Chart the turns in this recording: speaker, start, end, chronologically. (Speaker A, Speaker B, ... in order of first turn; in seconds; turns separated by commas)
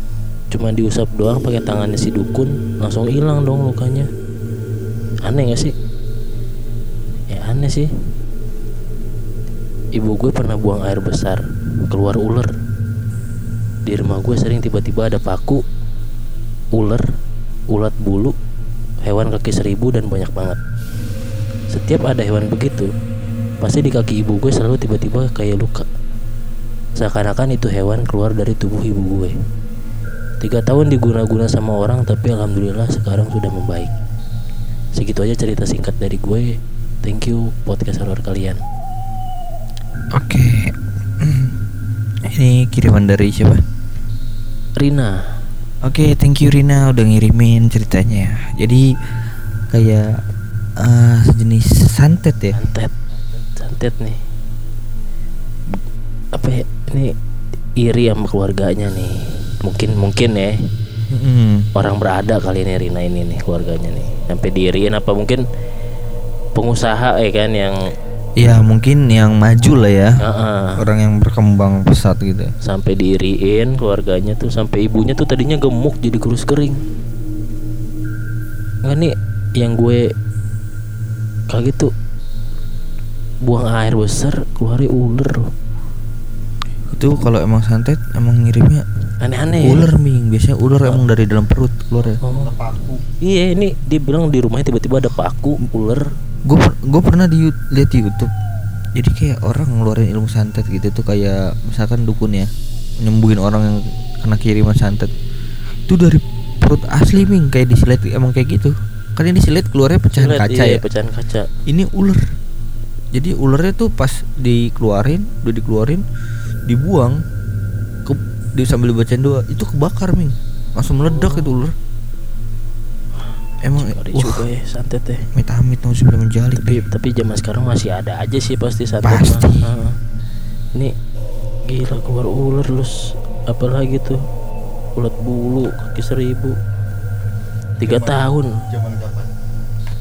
Speaker A: 0.5-4.1, Speaker A: 5.2-5.7, Speaker A: 7.3-7.9, Speaker A: 9.9-12.5, Speaker A: 13.8-15.6, Speaker A: 16.7-17.1, Speaker A: 17.7-18.3, Speaker A: 19.0-20.6, Speaker A: 21.7-22.9, Speaker A: 23.6-25.9, Speaker A: 27.0-29.3, Speaker A: 30.4-33.9, Speaker A: 35.0-38.6, Speaker B: 40.1-41.6, Speaker B: 42.2-43.6, Speaker A: 44.8-45.2, Speaker B: 45.8-48.9, Speaker B: 49.7-50.2, Speaker B: 50.8-52.6, Speaker A: 52.5-52.9, Speaker A: 53.5-54.2, Speaker A: 56.3-57.1, Speaker A: 57.8-60.5, Speaker B: 61.1-61.7, Speaker A: 61.8-65.4, Speaker A: 66.5-67.8, Speaker B: 68.4-70.2, Speaker A: 70.2-70.8, Speaker B: 70.8-72.5, Speaker A: 72.6-76.8, Speaker A: 78.8-80.1, Speaker A: 81.5-81.9, Speaker A: 83.4-85.5, Speaker B: 86.9-88.8, Speaker A: 89.2-89.9, Speaker B: 89.6-92.2, Speaker A: 92.2-92.5, Speaker C: 92.2-93.0, Speaker A: 93.2-96.1, Speaker B: 96.5-98.3, Speaker B: 98.9-102.5, Speaker B: 103.0-105.1, Speaker B: 105.9-110.8, Speaker A: 110.2-111.5, Speaker B: 111.7-112.3, Speaker B: 113.1-116.0, Speaker B: 116.7-117.2, Speaker B: 118.0-121.7, Speaker A: 121.1-121.5, Speaker B: 123.6-124.5, Speaker A: 123.7-125.3, Speaker B: 125.3-126.8, Speaker A: 126.5-129.9, Speaker B: 129.0-129.8, Speaker A: 131.7-134.2, Speaker A: 134.9-136.6, Speaker C: 137.8-139.3, Speaker A: 137.8-138.5